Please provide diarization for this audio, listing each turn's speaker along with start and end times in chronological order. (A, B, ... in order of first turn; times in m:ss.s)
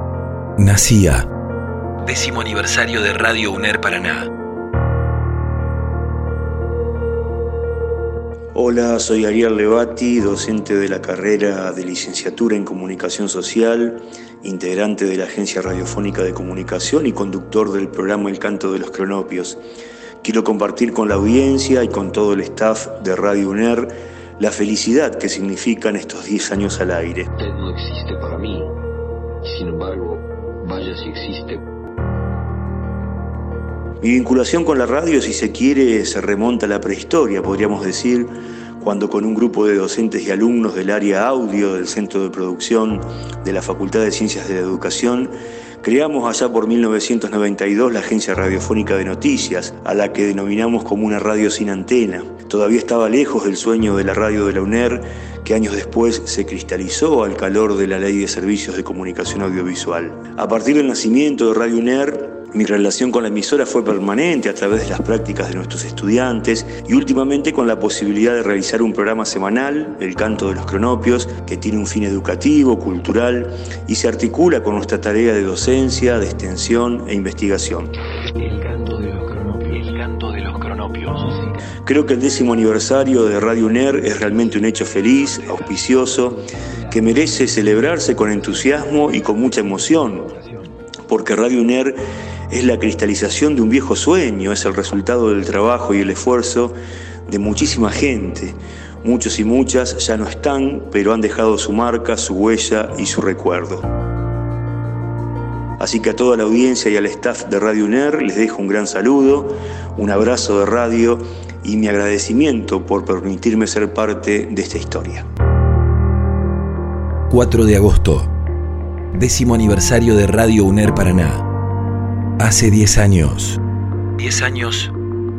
0:00.6-0:01.3 A
0:02.0-0:04.3 A
0:08.5-0:19.6 B
0:20.2-0:27.3 B
0:27.3-0:28.8 C
0:29.4-0:31.6 C
0:34.0-1:17.9 B
1:19.8-1:21.1 A
1:21.8-1:30.4 B
1:31.1-1:32.0 B
1:32.5-1:36.7 B
1:37.3-1:43.8 B
1:45.8-1:55.2 B
1:57.3-1:58.3 A
1:59.1-2:01.4 A
2:02.4-2:03.6 A
2:04.2-2:04.9 A